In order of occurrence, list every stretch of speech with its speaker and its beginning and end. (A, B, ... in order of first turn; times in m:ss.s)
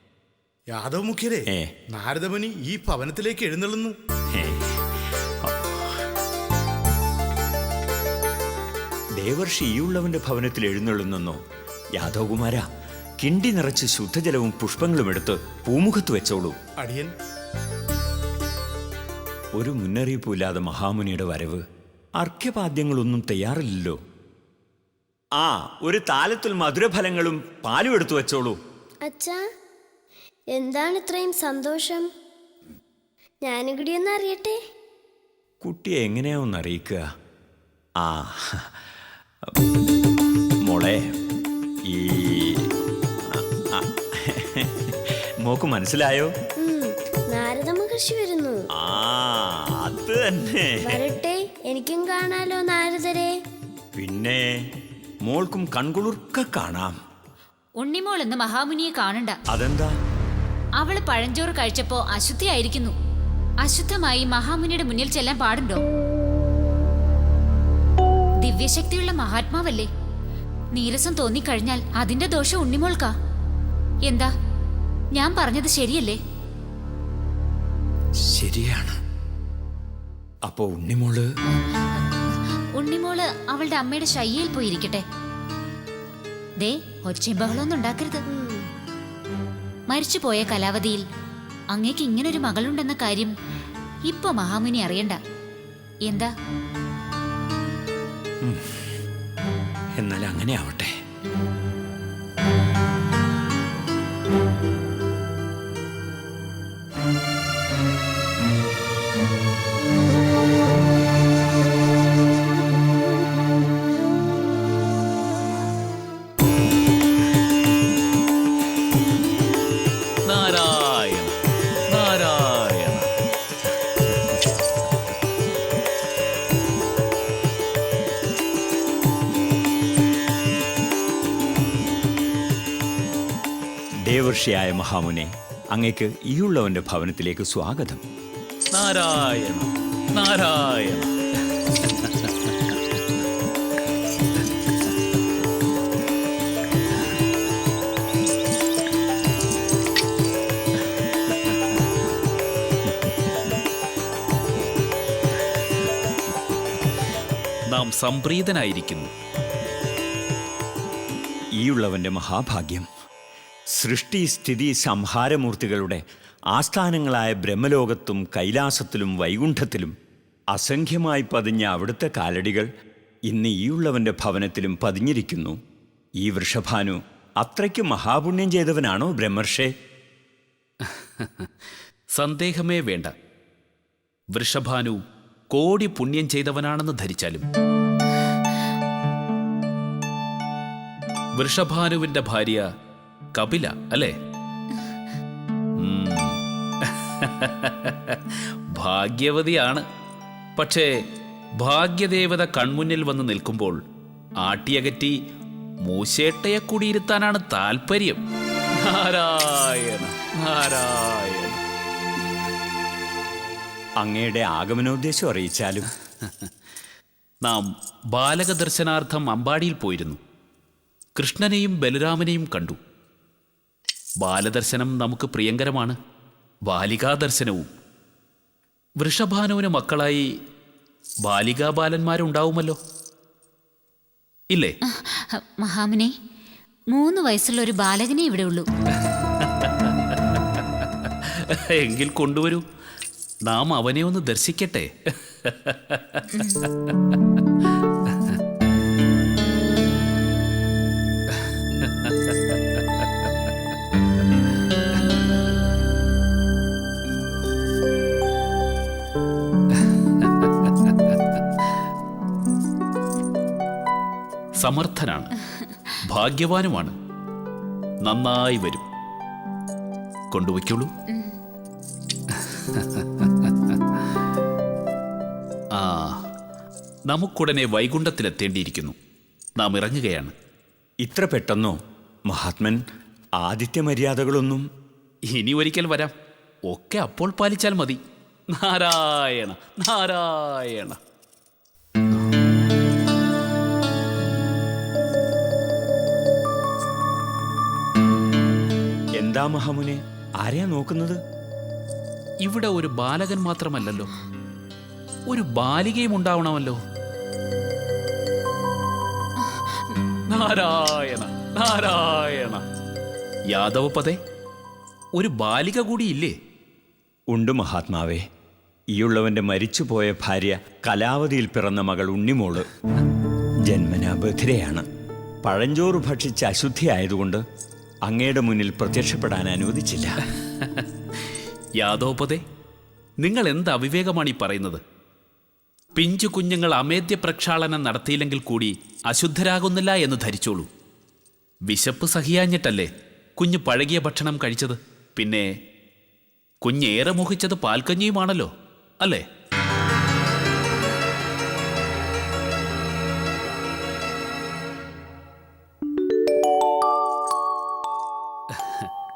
0:00.7-0:03.9 A
0:04.3-0:04.9 B
0:05.4-0:06.0 B
0:09.2-0:11.4 B
0:12.0-0:12.6 B
0:13.2-0:16.6 B
0:16.8-0:17.1 A
0:19.6-0:21.6 B
0:22.2-0:24.0 B
0:25.4-0:28.6 B
0:29.1-0:29.4 C
0:30.6-0:32.0 C
0:33.4-0:34.5 C
0:35.6-0:37.0 B
0:38.0-0:38.7 B
0:40.6-0:41.0 B
0:41.9-0:42.6 B
0:43.3-0:46.3 B
0:46.6-0:48.6 C
0:48.8-0:51.0 B
0:50.9-0:53.3 C
0:54.0-0:54.5 B
0:55.3-0:57.0 B
0:57.8-0:59.4 D
0:59.5-0:59.9 B
1:00.8-1:02.9 D
1:03.6-1:05.8 D
1:08.4-1:09.9 D
1:10.7-1:13.1 D
1:14.0-1:14.3 D
1:15.1-1:16.2 D
1:18.2-1:19.0 B
1:20.5-1:21.2 B
1:22.8-1:25.0 D
1:26.6-1:28.2 D
1:29.9-1:31.0 D
1:31.7-1:33.3 D
1:34.1-1:35.2 D
1:36.0-1:36.3 D
1:38.4-1:38.8 B
1:40.0-1:40.9 B
2:00.2-2:01.3 E
2:01.9-2:03.1 E
2:04.1-2:04.4 E
2:14.1-2:18.0 B
2:18.7-2:21.1 E
2:21.7-2:22.8 E
2:37.7-2:39.1 E
2:41.6-2:42.9 B
2:43.8-2:49.9 B
2:50.5-2:52.7 B
2:53.3-2:55.6 B
2:56.2-2:59.7 B
3:00.8-3:01.5 E
3:02.1-3:03.1 E
3:04.3-3:05.0 E
3:05.5-3:07.4 E
3:11.4-3:12.6 E
3:13.4-3:14.1 E
3:15.8-3:19.8 E
3:20.6-3:21.0 E
3:21.6-3:23.8 E
3:24.4-3:25.1 E
3:25.8-3:28.2 E
3:28.8-3:31.6 E
3:34.0-3:35.9 B
3:36.2-3:36.5 E
3:37.4-3:40.2 E
3:41.2-3:42.8 E
3:44.2-3:46.0 E
3:46.7-3:47.7 E
3:49.0-3:50.3 E
3:51.2-3:52.8 E
3:54.8-3:56.1 D
3:56.9-3:58.7 D
3:59.4-4:02.6 E
4:03.5-4:06.2 E
4:06.3-4:06.6 D
4:08.0-4:08.4 E
4:11.3-4:13.1 E
4:19.8-4:21.4 E
4:24.6-4:25.3 E
4:25.5-4:25.9 D
4:26.0-4:27.0 E
4:28.0-4:28.8 E
4:30.3-4:30.9 E
4:32.3-4:33.8 E
4:35.8-4:36.2 E
4:37.1-4:39.0 E
4:39.6-4:40.3 E
4:41.0-4:41.8 B
4:42.3-4:42.8 B
4:43.4-4:44.6 B
4:45.3-4:46.1 E
4:46.7-4:48.0 E
4:48.6-4:51.0 E
4:59.2-5:01.2 B
5:02.4-5:04.1 E
5:05.3-5:06.8 E
5:09.9-5:12.6 E
5:13.5-5:14.2 E
5:15.2-5:16.4 E
5:17.3-5:18.2 B
5:18.9-5:22.7 B
5:23.7-5:24.8 B
5:25.4-5:27.4 B
5:28.1-5:30.2 B
5:30.4-5:30.9 E
5:31.8-5:32.4 E
5:33.2-5:34.8 E
5:36.0-5:40.7 E
5:41.7-5:45.5 E
5:46.6-5:48.5 E
5:58.5-5:58.9 E